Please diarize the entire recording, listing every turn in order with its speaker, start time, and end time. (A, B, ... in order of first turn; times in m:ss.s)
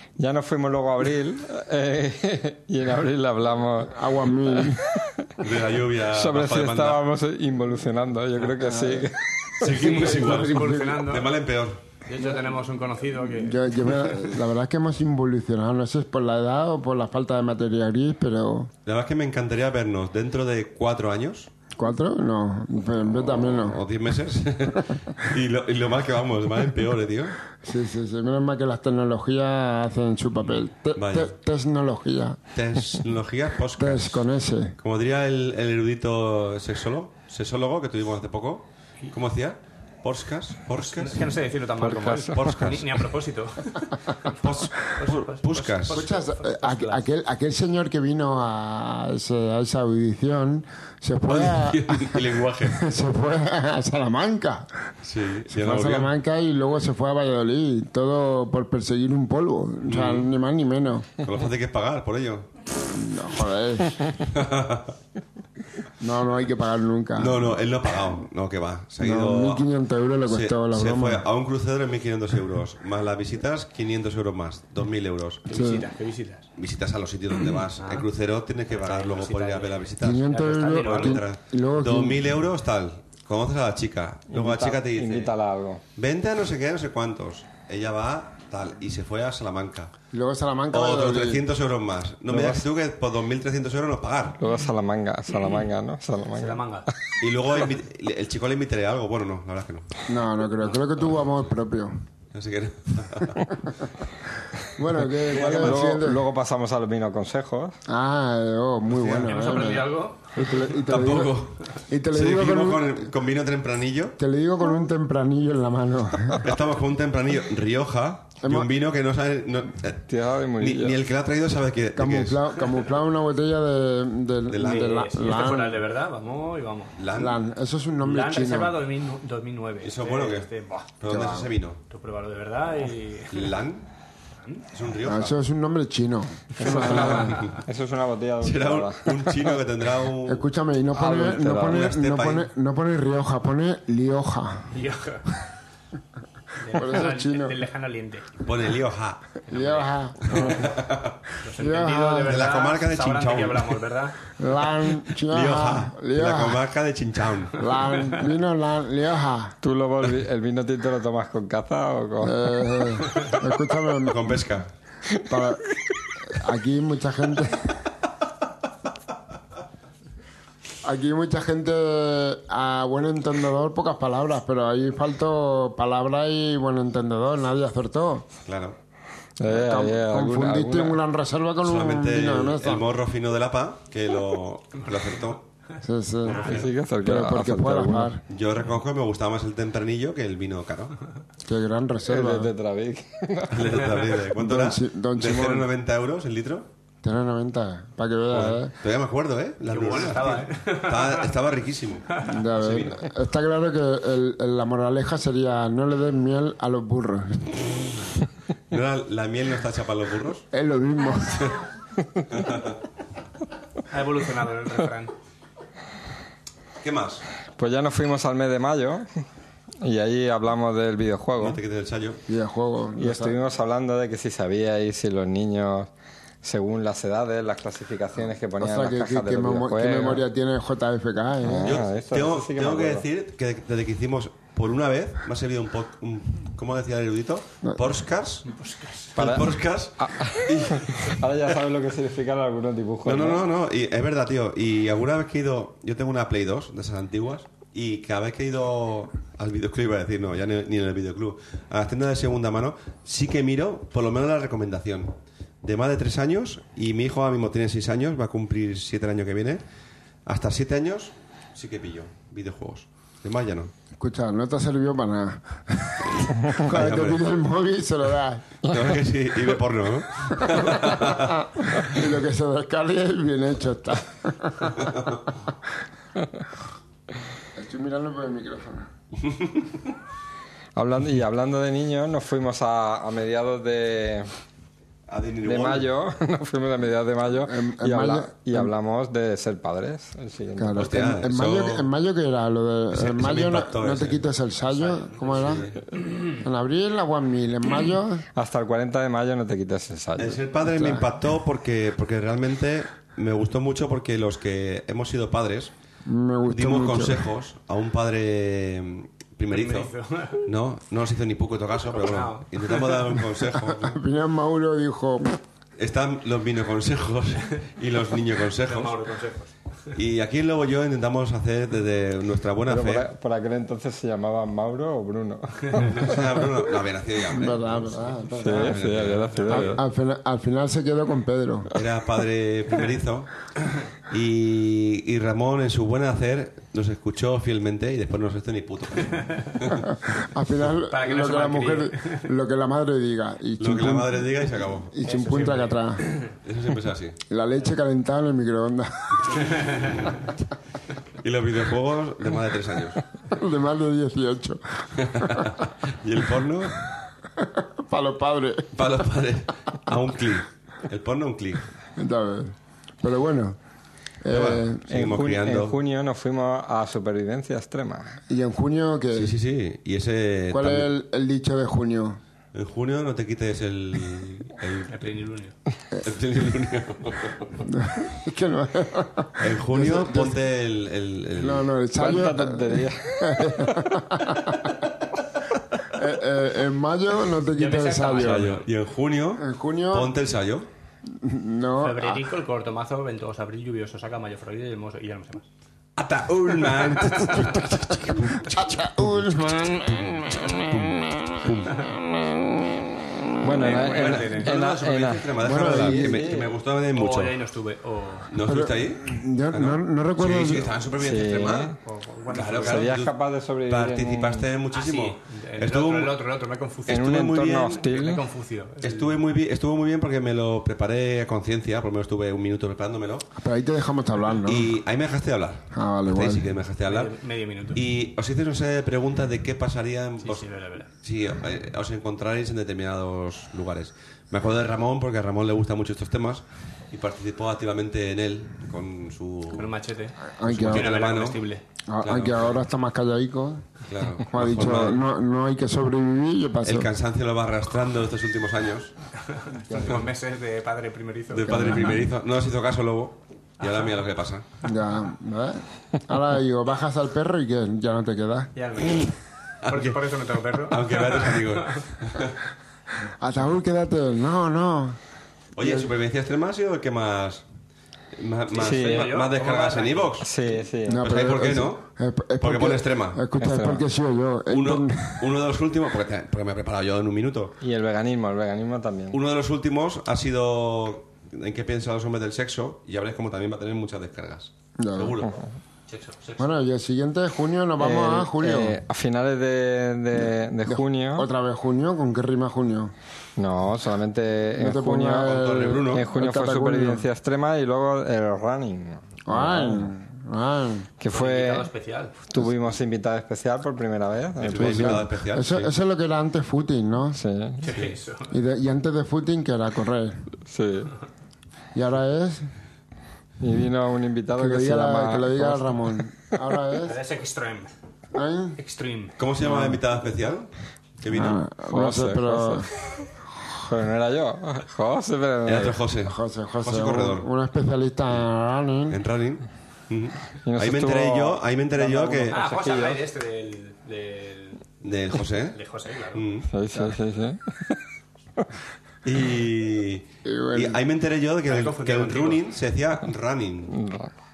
0:00.2-0:05.4 A
0:03.9-0:04.8 B
0:05.4-0:07.0 C
0:06.1-0:09.7 A
0:08.6-0:11.1 B
0:09.6-0:11.8 C
0:09.7-0:11.3 D
0:12.0-0:14.0 D
0:13.3-0:18.7 B
0:18.8-0:21.5 C
0:21.7-0:23.8 B
0:23.1-0:27.4 C
0:27.6-0:32.4 B
0:30.9-0:31.3 C
0:32.5-0:34.2 C
0:33.8-0:34.8 B
0:34.8-0:41.3 C
0:40.7-0:47.0 D
0:41.8-0:42.6 A
0:42.3-0:43.0 C
0:44.3-0:46.0 C
0:45.9-0:54.9 B
0:51.3-0:52.9 C
0:55.0-0:56.1 C
0:55.5-1:01.1 B
0:59.8-1:00.3 C
1:01.2-1:02.5 C
1:02.8-1:04.1 B
1:04.2-1:04.9 C
1:06.0-1:07.5 B
1:07.2-1:09.6 C
1:09.0-1:11.2 B
1:10.3-1:15.4 C
1:15.4-1:16.5 D
1:15.5-1:15.9 B
1:16.6-1:25.3 C
1:17.4-1:18.1 D
1:18.7-1:21.2 D
1:20.0-1:22.3 B
1:24.3-1:25.8 A
1:25.9-1:29.9 C
1:30.1-1:31.4 B
1:30.7-1:34.4 C
1:32.3-1:32.6 A
1:34.4-1:36.6 A
1:36.3-1:36.9 D
1:37.2-1:39.9 C
1:40.1-1:41.9 B
1:42.3-1:43.6 C
1:44.7-1:46.2 B
1:45.3-1:47.8 A
1:45.3-1:45.8 C
1:47.9-1:53.1 B
1:48.9-1:49.4 C
1:49.2-1:50.3 D
1:50.8-1:54.2 C
1:54.2-1:56.6 B
1:56.4-2:00.0 C
1:58.4-1:58.7 B
2:00.1-2:01.0 A
2:00.6-2:02.4 C
2:01.9-2:05.8 B
2:04.5-2:05.1 C
2:04.6-2:07.0 D
2:07.0-2:07.4 C
2:07.1-2:08.8 B
2:08.0-2:10.9 D
2:09.8-2:11.8 C
2:11.0-2:11.5 B
2:11.9-2:13.5 D
2:13.3-2:13.9 C
2:14.7-2:15.3 C
2:15.0-2:17.4 B
2:16.6-2:19.6 A
2:16.8-2:17.6 C
2:18.4-2:20.4 C
2:20.2-2:24.7 B
2:20.9-2:21.9 A
2:21.5-2:22.4 C
2:24.7-2:25.3 D
2:26.6-2:28.4 D
2:26.7-2:27.6 B
2:28.4-2:29.2 C
2:29.5-2:30.8 D
2:29.5-2:30.8 B
2:30.3-2:31.2 C
2:31.4-2:34.3 D
2:31.6-2:32.4 B
2:32.2-2:33.8 C
2:34.4-2:36.6 B
2:35.2-2:37.7 C
2:37.6-2:39.6 B
2:39.6-2:42.4 A
2:42.2-2:44.4 B
2:44.0-2:44.7 C
2:45.2-2:45.6 B
2:46.2-2:47.8 B
2:50.8-2:58.3 B
2:58.4-2:58.8 C
2:59.4-3:01.0 A
2:59.4-3:02.9 B
3:01.6-3:05.4 C
3:04.8-3:05.2 D
3:05.8-3:08.2 B
3:06.2-3:06.7 C
3:06.3-3:06.6 D
3:06.4-3:08.1 A
3:08.3-3:11.0 C
3:11.4-3:12.5 B
3:12.0-3:14.0 A
3:13.5-3:16.7 C
3:14.3-3:15.7 B
3:17.0-3:18.7 B
3:18.3-3:23.1 C
3:19.6-3:21.3 D
3:22.2-3:27.7 B
3:28.7-3:30.4 C
3:30.5-3:31.6 B
3:32.3-3:32.8 C
3:33.9-3:35.1 D
3:36.8-3:37.2 C
3:37.6-3:39.1 A
3:39.8-3:41.6 A
3:41.4-3:42.2 C
3:42.3-3:43.4 B
3:43.0-3:45.9 A
3:46.4-3:50.2 A
3:48.6-3:51.8 B
3:51.4-3:53.1 A
3:51.6-3:58.5 C
3:58.5-3:59.2 D
3:59.1-4:01.2 C
3:59.2-4:03.5 A
4:03.0-4:19.6 C
4:20.2-4:23.7 C
4:24.0-4:28.6 B
4:26.6-4:27.2 C
4:28.6-4:31.8 C
4:30.3-4:35.3 B
4:34.9-4:35.1 C
4:37.5-4:38.9 B
4:39.3-4:39.5 C
4:40.8-4:44.3 A
4:45.1-4:45.9 C
4:45.4-4:50.9 A
4:47.4-4:48.7 B
4:50.6-4:55.7 B
4:50.8-4:51.8 C
4:52.9-4:54.2 C
4:54.8-4:56.3 D
4:55.2-4:55.8 C
4:56.4-4:58.2 B
4:58.3-5:00.4 A
5:00.2-5:05.7 C
5:00.6-5:01.1 B
5:06.0-5:07.3 B
5:06.5-5:09.9 C
5:09.5-5:10.5 D
5:10.4-5:14.0 C
5:11.9-5:13.2 D
5:13.6-5:15.4 B
5:15.8-5:19.0 C
5:18.6-5:19.9 D
5:19.9-5:23.1 C
5:22.6-5:26.2 A
5:25.8-5:29.8 C
5:27.3-5:28.8 B
5:28.4-5:29.8 A
5:29.5-5:31.7 B
5:31.7-5:33.5 C
5:34.1-5:39.9 C
5:39.8-5:46.0 B
5:40.9-5:42.3 D
5:43.6-5:44.9 C
5:45.0-5:46.3 D
5:46.4-5:47.2 C
5:47.3-5:49.5 B
5:49.1-5:50.4 C
5:49.6-5:50.1 D
5:51.2-5:53.0 C
5:53.3-5:55.6 B
5:55.0-5:56.8 C
5:57.4-5:58.9 B
5:58.7-6:01.7 C
6:02.0-6:03.6 B
6:04.2-6:04.9 B
6:04.3-6:05.8 C
6:04.9-6:08.2 A
6:08.3-6:09.4 B
6:09.1-6:10.9 C
6:10.5-6:12.2 B
6:12.5-6:14.9 C
6:14.9-6:15.5 D
6:16.0-6:17.6 C
6:17.6-6:20.4 B
6:19.4-6:21.7 C
6:21.4-6:24.8 B
6:22.0-6:23.9 A
6:25.9-6:28.5 B
6:27.5-6:28.6 D
6:28.2-6:30.7 C
6:29.4-6:30.1 B
6:31.1-6:32.2 B
6:31.8-6:35.4 D
6:36.0-6:41.9 C
6:36.7-6:37.5 D
6:38.5-6:40.9 B
6:43.4-6:46.5 A
6:43.5-6:44.7 D
6:43.9-6:47.3 C
6:45.4-6:46.2 B
6:46.9-6:48.3 D
6:48.3-6:51.7 C
6:48.4-6:50.7 B
6:51.0-6:51.8 A
6:51.8-6:52.9 D
6:52.3-6:53.1 C
6:52.6-6:54.5 A
6:53.7-6:56.1 C
6:54.7-6:59.2 D
6:56.9-6:57.8 C
6:56.9-6:58.2 A
6:58.8-7:03.3 C
7:03.4-7:04.7 B
7:04.4-7:07.1 C
7:05.7-7:06.5 B
7:06.8-7:07.8 D
7:07.7-7:10.5 C
7:10.2-7:10.9 D
7:11.0-7:19.7 C
7:19.5-7:21.6 D
7:20.4-7:20.9 B
7:20.4-7:21.4 C
7:21.9-7:23.7 B
7:22.0-7:22.6 C
7:23.9-7:25.0 C
7:24.3-7:26.9 B
7:26.6-7:28.9 C
7:29.2-7:32.0 D
7:29.7-7:30.0 B
7:31.3-7:34.4 C
7:31.4-7:32.0 B
7:33.6-7:33.9 D
7:34.6-7:38.5 B
7:38.5-7:41.9 D
7:39.6-7:40.0 C
7:40.6-7:42.4 C
7:43.2-7:45.0 B
7:45.6-7:47.4 C
7:45.6-7:45.9 B
7:48.1-7:50.3 C
7:48.5-7:50.2 D
7:48.6-7:49.1 A
7:50.2-7:51.0 A
7:50.9-7:55.3 B
7:51.0-7:51.8 C
7:52.4-7:53.2 C
7:53.4-7:53.8 A
7:54.5-7:57.5 C
7:57.6-7:59.2 A
7:59.1-8:05.4 C
8:04.8-8:05.2 B
8:05.9-8:06.5 D
8:06.4-8:08.8 B
8:07.8-8:11.3 A
8:10.6-8:12.9 B
8:13.4-8:15.4 A
8:14.6-8:17.1 B
8:15.2-8:16.1 C
8:15.9-8:19.9 A
8:19.3-8:20.9 B
8:21.0-8:21.7 A
8:21.1-8:22.2 D
8:22.3-8:25.0 A
8:24.4-8:25.7 C
8:24.5-8:27.2 B
8:27.1-8:27.6 A
8:27.6-8:28.3 D
8:27.6-8:27.9 C
8:28.3-8:30.3 B
8:30.4-8:30.9 A
8:31.7-8:32.5 B
8:33.4-8:36.0 A
8:34.4-8:37.0 B
8:36.8-8:37.7 D
8:38.1-8:38.6 B
8:38.6-8:39.1 D
8:39.2-8:41.4 C
8:39.4-8:39.8 B
8:41.1-8:42.7 B
8:41.6-8:42.7 A
8:43.6-8:45.8 A
8:45.4-8:47.3 C
8:46.0-8:49.0 B
8:48.9-8:52.4 C
8:50.4-8:53.0 A
8:52.3-8:54.7 D
8:54.8-8:55.6 C
8:55.3-8:56.3 D
8:56.1-8:56.5 C
8:56.5-8:57.8 A
8:59.0-9:03.8 C
9:00.2-9:00.8 B
9:01.4-9:02.4 D
9:03.7-9:04.1 A